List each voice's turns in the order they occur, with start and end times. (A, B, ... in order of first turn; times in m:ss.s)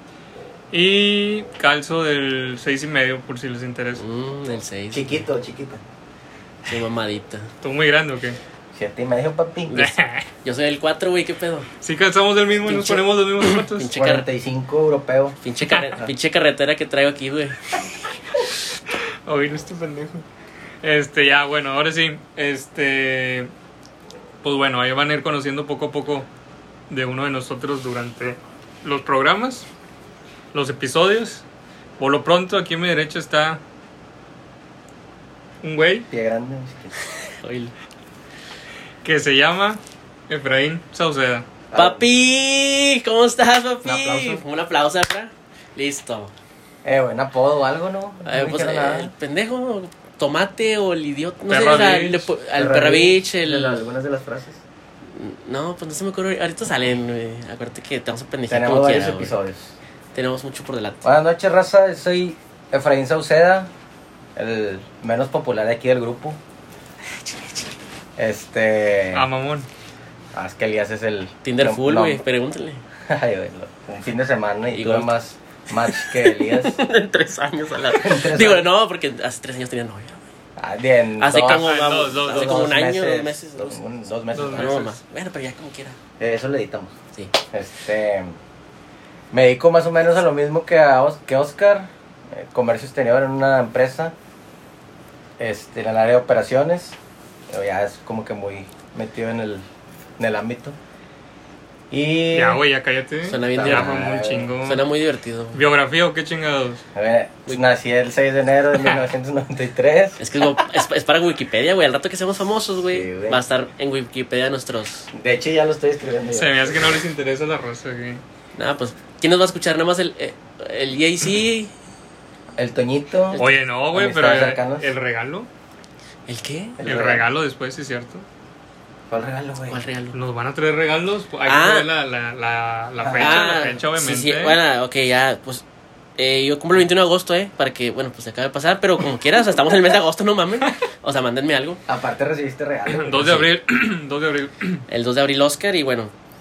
0:00.7-0:04.0 A
0:04.0-0:05.2 B
0:04.9-0:05.8 C
0:06.6-0:07.5 B
0:07.6-0:08.4 A
0:08.7-0:09.8 C
0:09.7-0:11.7 B
0:09.7-0:10.2 A
0:11.8-0:13.9 A
0:12.7-0:14.2 B
0:13.9-0:15.4 C
0:15.4-0:17.6 B
0:19.2-0:20.2 A
0:20.8-0:23.5 A
0:24.4-0:26.3 A
0:26.9-0:29.7 A
0:30.5-0:31.4 A
0:32.0-0:33.6 A
0:35.6-0:36.1 A
0:36.1-0:36.9 C
0:37.0-0:37.7 B
0:39.0-0:41.5 A
0:41.7-0:42.0 C
0:41.7-0:46.3 B
0:43.8-0:44.4 C
0:46.8-0:49.1 C
0:48.2-0:53.8 B
0:51.5-0:52.3 A
0:52.5-0:54.6 C
0:55.2-0:59.3 B
0:58.5-0:59.7 C
1:00.1-1:01.0 B
1:01.0-1:03.7 C
1:04.4-1:06.4 C
1:07.2-1:07.6 B
1:08.2-1:09.2 C
1:09.1-1:09.7 A
1:10.3-1:12.2 C
1:11.4-1:12.8 B
1:13.0-1:16.8 C
1:14.7-1:15.1 B
1:15.9-1:20.2 B
1:17.8-1:18.7 C
1:20.6-1:24.8 C
1:21.2-1:23.8 B
1:21.4-1:22.7 A
1:24.3-1:25.0 A
1:24.4-1:26.0 B
1:26.2-1:26.9 C
1:27.5-1:28.3 C
1:29.3-1:34.1 C
1:35.4-1:37.0 C
1:37.5-1:39.6 C
1:40.2-1:40.8 C
1:41.9-1:42.6 C
1:42.3-1:44.8 A
1:43.3-1:44.0 B
1:43.5-1:44.5 C
1:44.6-1:45.6 B
1:45.5-1:46.8 A
1:46.9-1:50.2 C
1:50.2-1:55.1 B
1:52.9-1:53.4 C
1:55.1-1:57.0 C
1:56.3-1:58.2 A
1:58.6-2:01.7 B
2:02.6-2:04.9 C
2:03.3-2:03.6 B
2:03.4-2:05.5 A
2:06.3-2:06.8 B
2:06.8-2:07.2 C
2:06.8-2:08.2 A
2:09.1-2:09.8 C
2:09.7-2:10.2 B
2:10.1-2:14.6 A
2:11.4-2:11.9 B
2:13.0-2:13.8 C
2:13.2-2:15.6 B
2:16.2-2:21.8 B
2:21.9-2:23.4 C
2:22.8-2:24.8 A
2:24.9-2:26.1 B